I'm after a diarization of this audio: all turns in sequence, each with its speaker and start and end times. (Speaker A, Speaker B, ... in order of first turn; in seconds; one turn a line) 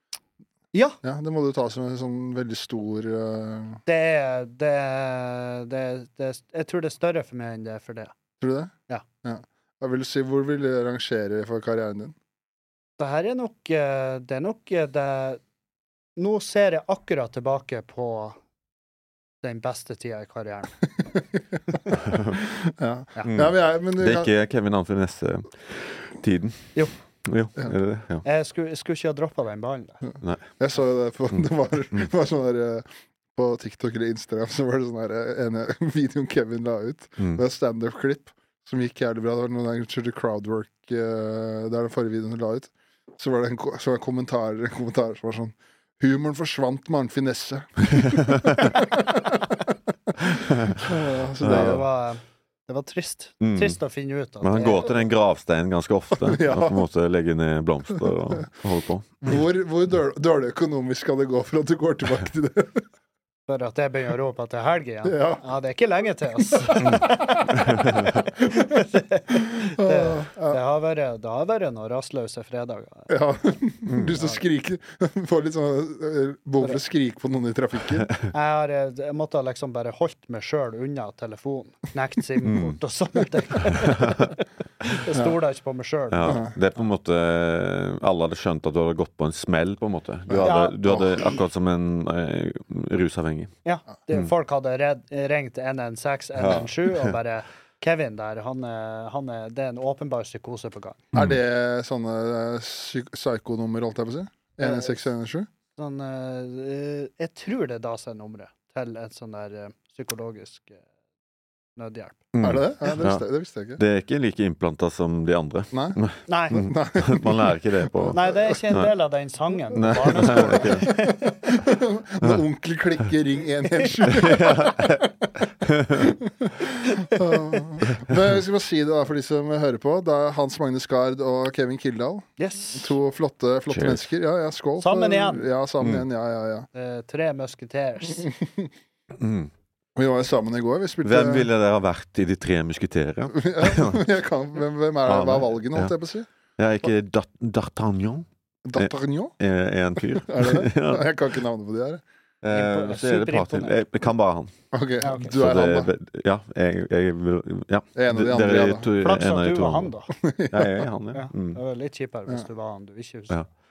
Speaker A: 0.7-1.0
Speaker B: 1.0-3.8
Speaker A: 3.9-8.1
Speaker B: 8.4-8.7
Speaker B: 9.2-12.1
Speaker A: 13.0-15.4
Speaker A: 16.1-18.4
Speaker A: 19.4-20.8
Speaker B: 21.9-24.3
Speaker C: 22.0-22.4
Speaker C: 23.2-28.2
Speaker A: 28.2-30.1
Speaker B: 30.6-49.6
Speaker C: 48.1-48.7
Speaker C: 50.4-50.7
Speaker B: 50.7-51.8
Speaker C: 51.4-51.8
Speaker A: 51.4-55.0
Speaker C: 53.4-53.8
Speaker C: 54.4-59.3
Speaker B: 56.2-56.8
Speaker B: 59.2-62.8
Speaker A: 63.5-73.1
Speaker B: 65.0-65.4
Speaker B: 66.5-70.6
Speaker B: 73.1-78.1
Speaker C: 73.9-74.1
Speaker A: 74.1-74.4
Speaker A: 78.3-86.4
Speaker C: 82.4-82.8
Speaker C: 83.8-84.3
Speaker C: 86.1-93.5
Speaker B: 86.2-86.5
Speaker B: 90.3-91.3
Speaker A: 90.4-91.0
Speaker A: 93.6-101.1
Speaker C: 96.4-97.1
Speaker B: 101.1-105.5
Speaker A: 104.6-105.0
Speaker A: 105.8-110.8
Speaker A: 111.8-112.3
Speaker C: 112.3-113.2
Speaker B: 112.4-113.8
Speaker C: 113.8-118.9
Speaker B: 115.7-116.0
Speaker A: 116.3-116.7
Speaker B: 116.5-118.5
Speaker A: 118.1-121.3
Speaker C: 119.7-120.9
Speaker B: 120.2-136.7
Speaker C: 124.0-125.0
Speaker C: 125.6-126.1
Speaker A: 126.9-127.6
Speaker A: 132.4-133.0
Speaker C: 133.7-134.0
Speaker A: 134.8-135.4
Speaker A: 136.7-138.3
Speaker B: 138.4-138.7
Speaker C: 139.1-139.5
Speaker B: 139.9-141.5
Speaker C: 141.0-144.0
Speaker B: 143.3-146.3
Speaker C: 145.1-145.9
Speaker C: 146.6-151.1
Speaker B: 148.6-149.3
Speaker B: 150.1-152.0
Speaker C: 152.4-154.5
Speaker A: 152.5-153.8
Speaker B: 154.7-155.9
Speaker A: 155.0-155.3
Speaker C: 155.2-159.9
Speaker B: 157.9-158.9
Speaker A: 159.0-160.1
Speaker B: 160.1-160.9
Speaker C: 160.5-161.6
Speaker A: 161.1-163.4